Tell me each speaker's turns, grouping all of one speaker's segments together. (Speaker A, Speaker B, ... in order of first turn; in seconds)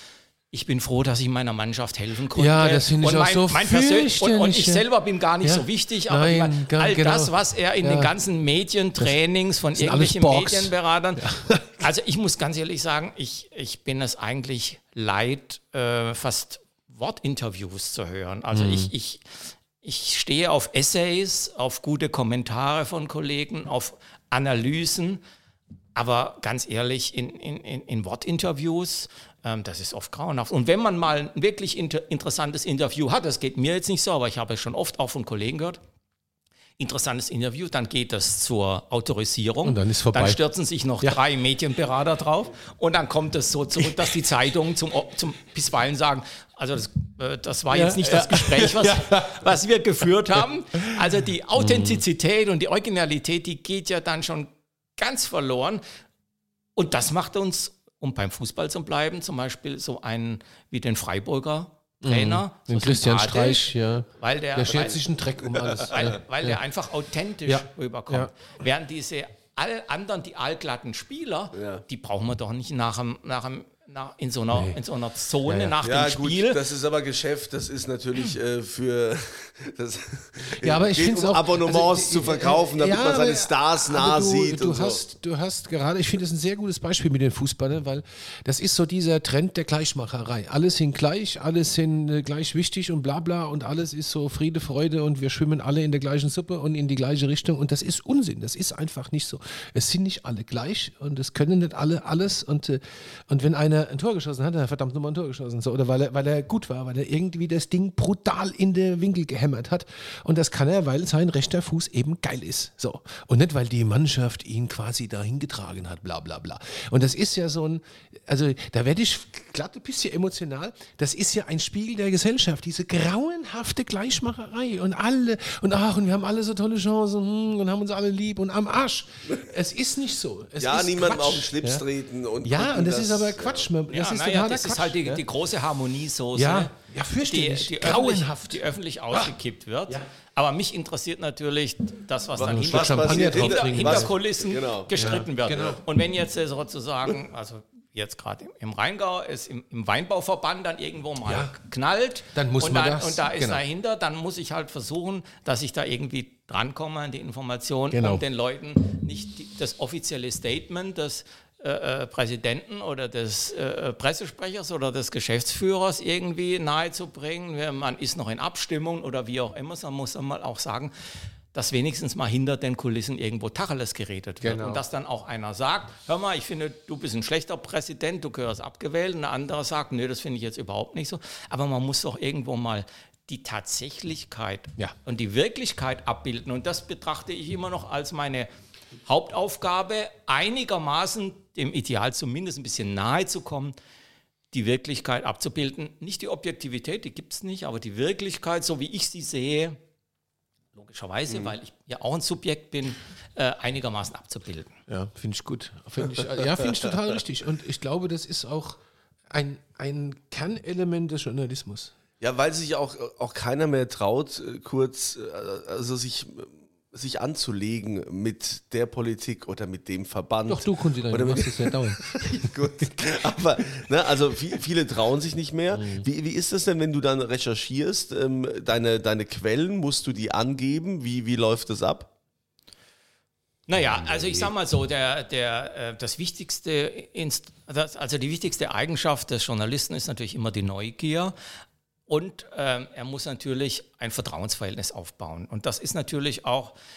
Speaker A: 0.5-25.2, 25.9-35.8, 36.8-55.8, 56.8-65.0, 65.9-76.6, 133.9-170.9, 171.5-188.5, 189.0-193.7, 194.5-199.8, 200.7-204.8, 233.7-241.3, 242.1-246.7
Speaker B: 2.3-4.8, 5.4-8.1, 9.7-11.8, 18.5-18.9, 39.6-40.4, 47.7-49.3, 51.5-52.0, 62.0-66.6, 67.4-68.3, 74.5-74.8, 75.5-75.8, 80.5-131.8, 132.4-135.2, 136.3-139.3, 142.4-144.1, 144.9-145.8, 151.2-151.5, 152.3-153.6, 157.9-158.2, 174.4-174.8, 204.9-211.9, 220.5-222.5, 225.7-226.1
Speaker C: 71.5-71.8, 75.8-85.0, 130.6-133.7, 142.4-145.7, 212.2-232.1